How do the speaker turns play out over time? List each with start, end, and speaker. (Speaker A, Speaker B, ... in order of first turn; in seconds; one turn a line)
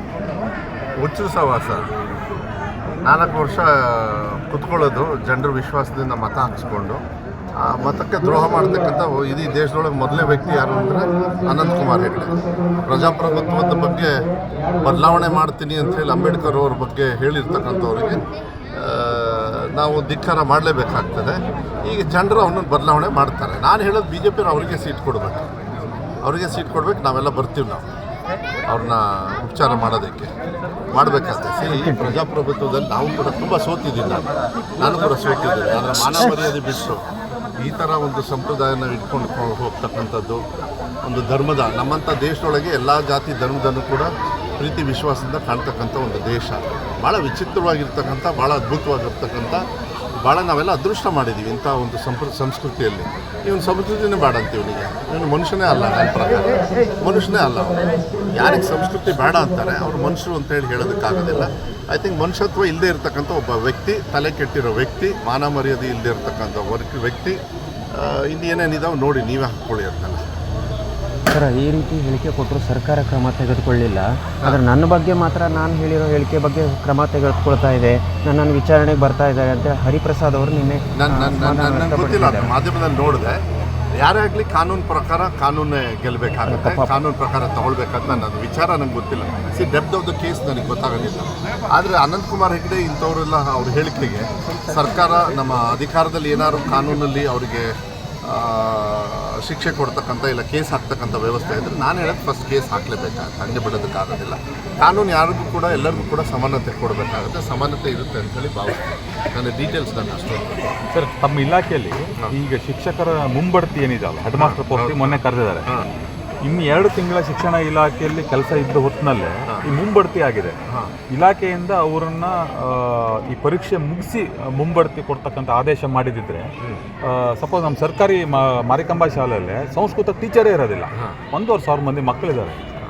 Speaker A: 1.0-1.9
Speaker A: 3.0-7.0
Speaker A: 7.5-14.2
Speaker A: 14.8-25.5
Speaker A: 26.2-27.9
Speaker A: 28.7-30.3
Speaker A: 30.9-34.3
Speaker B: 31.7-32.2
Speaker A: 34.8-37.0
Speaker A: 37.6-40.4
Speaker A: 41.0-49.6
Speaker A: 50.2-67.4
Speaker A: 67.9-70.3
Speaker B: 71.3-82.5
Speaker A: 81.0-83.4
Speaker A: 83.9-110.6
Speaker B: 86.5-86.9
Speaker C: 110.9-115.7
Speaker A: 114.3-115.9
Speaker C: 116.4-120.6
Speaker A: 120.7-120.9
Speaker C: 121.1-132.6
Speaker A: 130.9-131.2